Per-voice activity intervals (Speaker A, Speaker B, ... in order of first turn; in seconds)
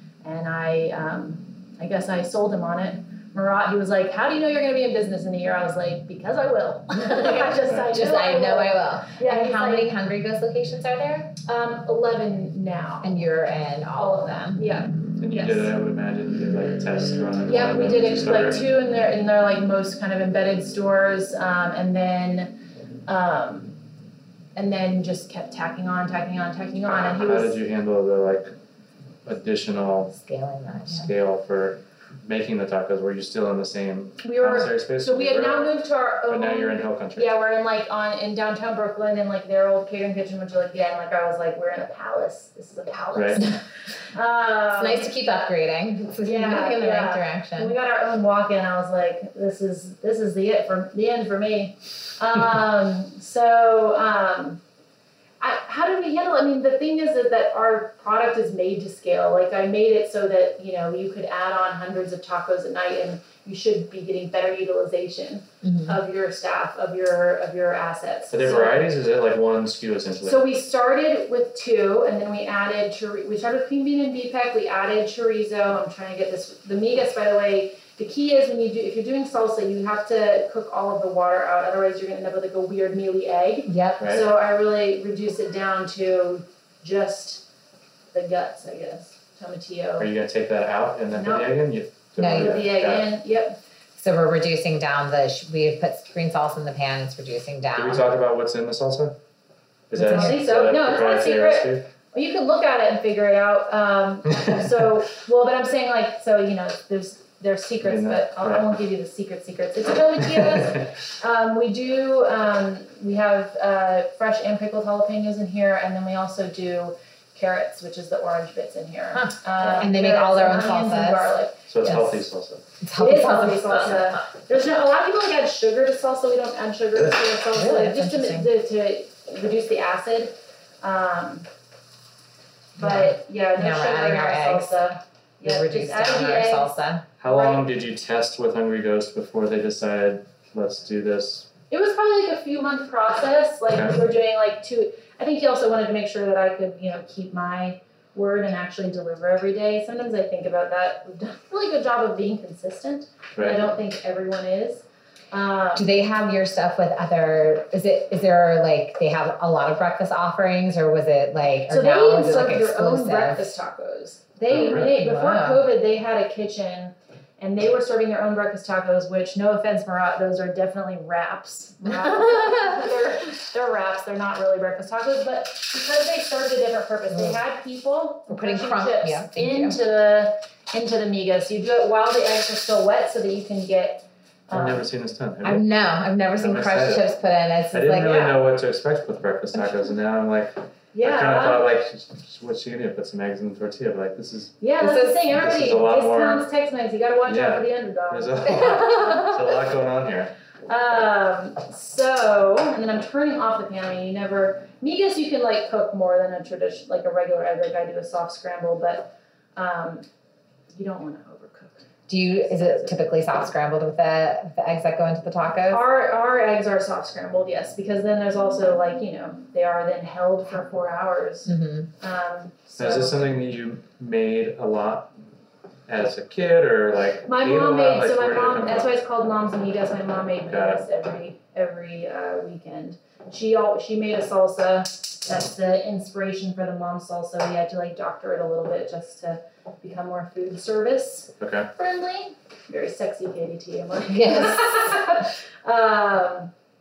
Speaker A: 0.2-9.9, 11.4-13.1, 13.9-15.7, 17.4-23.8, 24.5-27.6, 34.2-45.1, 46.2-54.6, 55.4-68.8, 70.2-87.5, 88.1-90.1, 91.1-91.6, 92.2-93.6, 100.0-122.2, 122.9-131.5, 132.8-137.7, 141.7-155.9, 161.7-184.8, 190.9-191.7, 194.6-199.6, 200.7-210.1, 210.7-213.1, 215.7-223.3, 227.2-246.5
Speaker B: 6.9-11.3, 13.0-14.6, 30.1-31.1, 44.7-47.8, 65.6-66.0, 83.7-84.1, 92.2-92.7, 94.0-98.0, 99.9-100.4, 119.1-122.1, 122.8-124.2, 127.5-128.5, 132.8-134.8, 135.4-137.1, 155.7-163.6, 164.4-165.7, 171.8-172.9, 177.1-177.4, 178.3-179.8, 185.4-188.4, 194.8-195.3, 198.5-199.2, 212.1-215.8, 221.4-221.9, 244.1-244.9
Speaker C: 15.2-18.6, 27.2-28.5, 29.2-30.1, 30.9-35.7, 36.3-37.3, 43.1-43.4, 68.3-70.4, 84.0-84.3, 90.0-93.1, 97.7-99.2, 99.9-101.9, 107.8-108.7, 121.7-122.7, 137.2-141.5, 143.7-144.0, 153.3-153.6, 164.5-164.8, 184.5-185.7, 186.4-187.1, 187.7-194.6, 195.2-196.5, 197.3-200.3, 222.8-225.1, 225.9-228.9, 230.5-230.8, 241.4-241.7